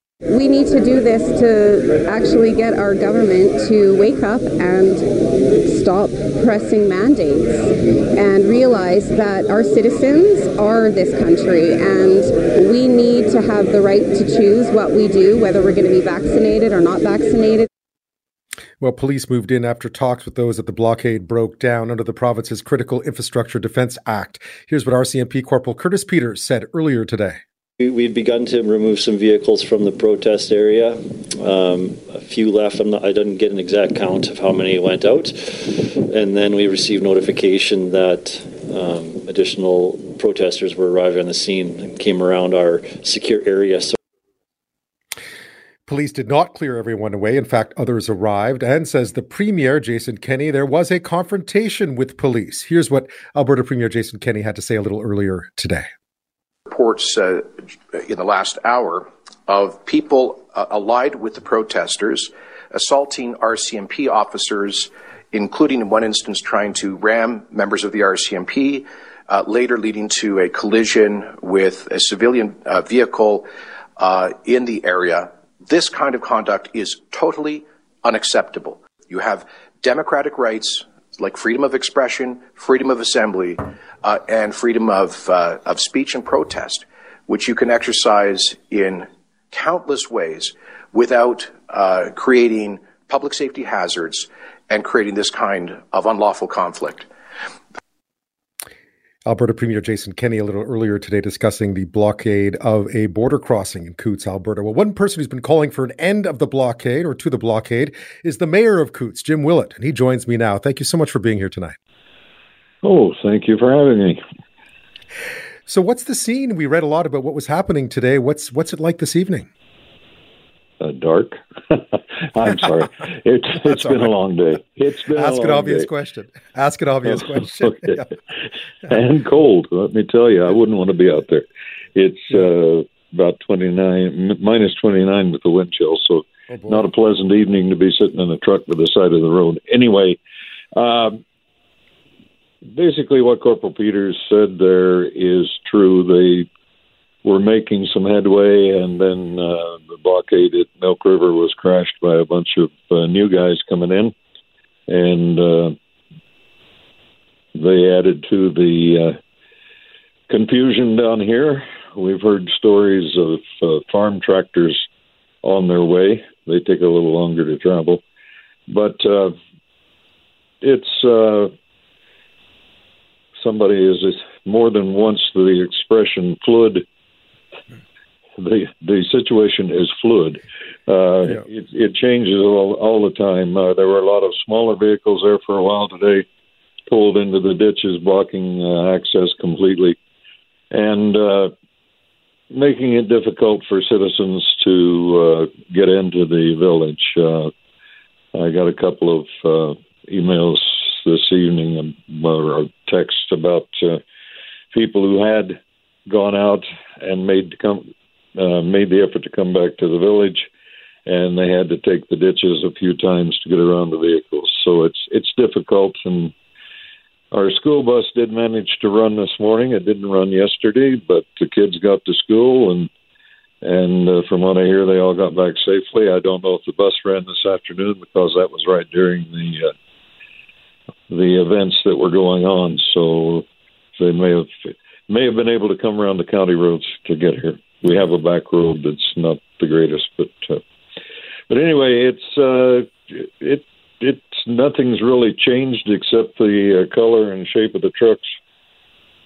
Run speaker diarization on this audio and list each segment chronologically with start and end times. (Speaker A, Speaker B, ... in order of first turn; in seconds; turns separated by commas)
Speaker A: 0.3-5.0, Speaker A: 5.7-7.6, Speaker A: 8.2-17.7, Speaker B: 18.8-27.4, Speaker C: 27.8-43.9, Speaker B: 45.9-55.9, Speaker D: 56.7-97.1, Speaker B: 99.2-111.8, Speaker E: 112.8-114.2, Speaker B: 115.7-119.5, Speaker E: 120.8-125.9, Speaker B: 125.2-128.1, Speaker E: 128.9-140.2, Speaker E: 140.7-141.2, Speaker E: 142.7-146.5, Speaker E: 147.2-154.1, Speaker E: 154.9-155.8, Speaker E: 157.5-159.2, Speaker E: 160.3-164.8, Speaker E: 165.4-168.0, Speaker E: 168.7-169.3, Speaker E: 170.6-171.5, Speaker E: 173.4-176.8, Speaker E: 178.4-186.2, Speaker E: 186.9-190.0, Speaker E: 190.7-191.5, Speaker E: 192.5-197.5, Speaker E: 198.3-204.0, Speaker E: 204.7-210.5, Speaker E: 211.1-216.3, Speaker E: 217.3-222.9, Speaker E: 223.6-229.7, Speaker E: 231.1-233.4, Speaker E: 234.0-240.6, Speaker E: 241.5-248.3